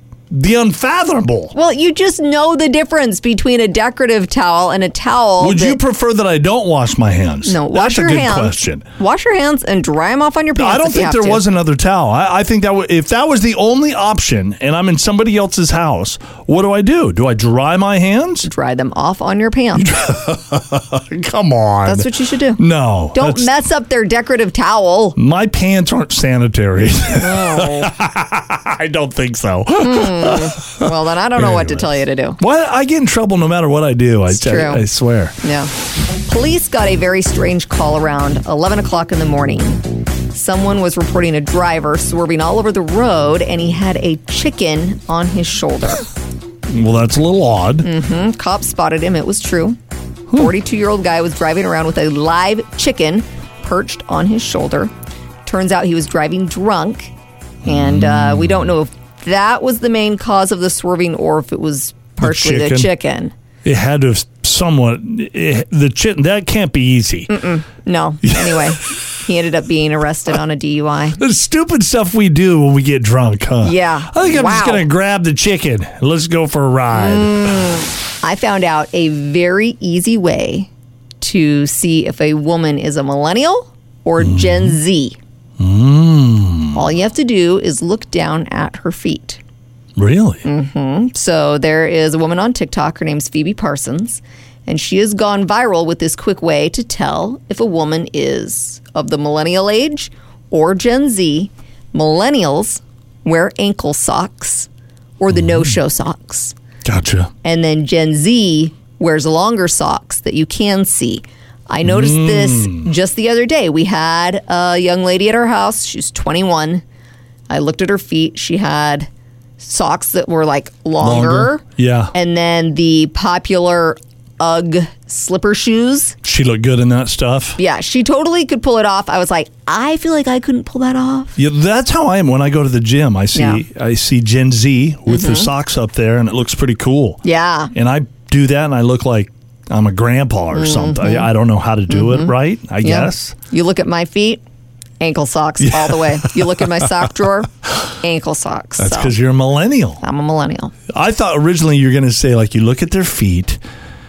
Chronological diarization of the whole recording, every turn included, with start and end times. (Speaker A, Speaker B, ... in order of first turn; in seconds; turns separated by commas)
Speaker A: 0.3-1.5, Speaker B: 1.5-5.8, Speaker A: 5.4-8.8, Speaker B: 7.5-11.4, Speaker A: 10.6-18.5, Speaker B: 18.4-19.9, Speaker A: 19.7-23.6, Speaker B: 21.9-22.6, Speaker B: 23.1-25.2, Speaker A: 25.2-35.4, Speaker B: 27.2-27.9, Speaker B: 29.8-32.4, Speaker B: 34.3-34.9, Speaker B: 35.4-46.0, Speaker A: 46.7-47.9, Speaker B: 47.8-49.8, Speaker B: 50.3-54.9, Speaker B: 55.5-57.1, Speaker A: 57.6-58.7, Speaker B: 57.6-63.3, Speaker A: 62.2-62.9, Speaker A: 63.6-67.4, Speaker B: 67.3-71.2, Speaker A: 68.2-69.0, Speaker A: 71.2-77.6, Speaker B: 73.6-74.9, Speaker B: 76.9-85.2, Speaker A: 84.2-84.8, Speaker A: 85.6-86.8, Speaker B: 86.7-89.4, Speaker A: 90.0-90.5, Speaker B: 90.4-104.7, Speaker B: 105.2-106.5, Speaker A: 105.3-105.7, Speaker A: 106.8-107.3, Speaker B: 107.4-116.8, Speaker A: 111.8-112.9, Speaker B: 117.5-119.1, Speaker B: 119.6-126.2, Speaker A: 121.0-122.1, Speaker A: 126.2-127.6, Speaker B: 127.6-131.4, Speaker A: 131.4-137.2, Speaker B: 133.3-133.6, Speaker B: 135.1-135.5, Speaker B: 137.2-137.7, Speaker A: 137.7-143.3, Speaker B: 140.5-141.3, Speaker B: 141.9-144.4, Speaker B: 145.0-149.2, Speaker A: 145.6-147.1, Speaker A: 148.8-150.0, Speaker B: 150.0-150.7, Speaker A: 150.9-153.6